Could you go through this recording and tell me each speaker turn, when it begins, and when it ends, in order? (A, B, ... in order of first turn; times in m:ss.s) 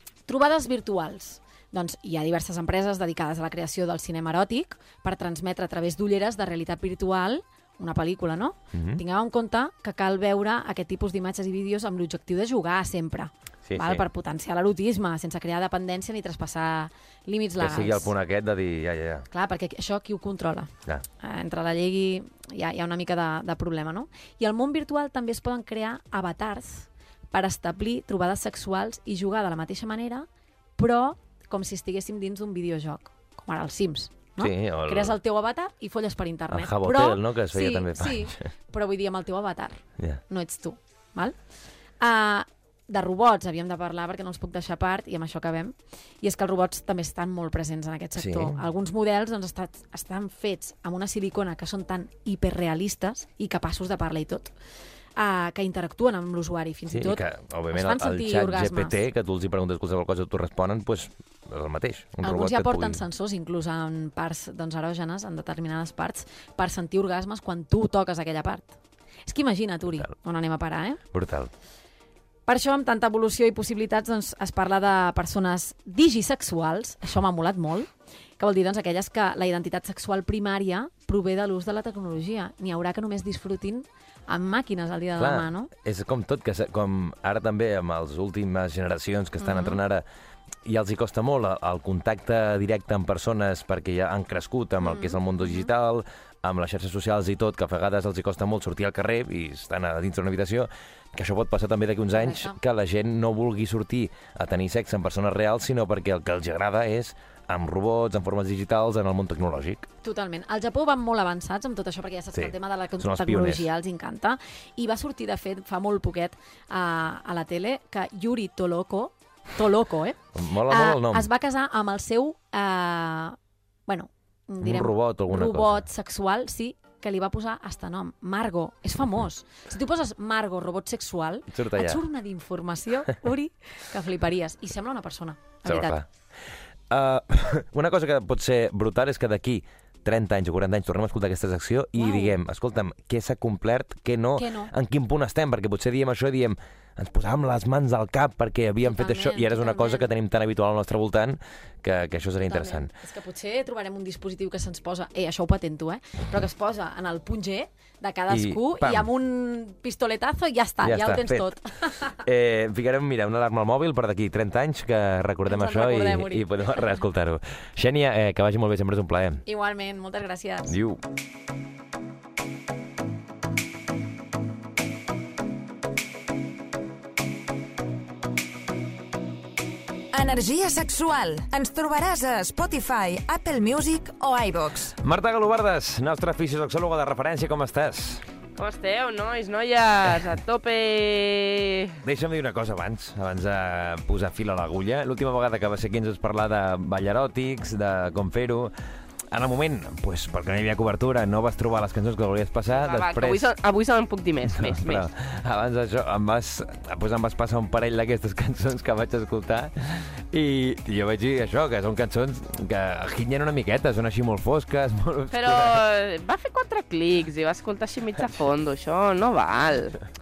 0:00.3-0:18.1 A
0:08.7-0:09.0 B
0:13.6-0:14.0 B
0:17.6-0:19.3 B
0:19.3-0:41.4 A
0:34.4-0:35.2 B
0:36.5-0:38.5 B
0:42.0-0:54.5 A
0:48.2-0:48.6 B
0:55.2-0:59.0 A
0:56.9-1:03.0 B
1:02.2-1:11.0 A
1:11.1-1:11.5 B
1:12.5-1:25.7 A
1:25.2-1:30.0 B
1:29.4-1:29.8 A
1:30.6-1:49.9 B
1:34.8-1:35.7 A
1:42.1-1:42.6 A
1:50.0-2:16.0 A
1:52.4-1:53.7 B
2:00.4-2:01.3 B
2:04.6-2:05.8 B
2:11.5-2:12.0 B
2:15.6-2:16.1 B
2:16.9-2:32.9 B
2:22.0-2:22.4 A
2:24.4-2:24.7 A
2:28.8-2:30.1 A
2:32.4-2:42.2 A
2:38.3-2:39.1 B
2:40.8-2:49.4 B
2:45.5-2:47.0 A
2:49.5-2:50.8 A
2:50.7-2:51.0 B
3:00.1-3:05.0 C
3:05.0-3:08.2 B
3:08.6-3:12.0 D
3:12.0-3:18.7 B
3:19.3-3:23.5 B
3:22.7-3:25.1 D
3:24.5-3:35.8 B
3:35.3-3:40.0 D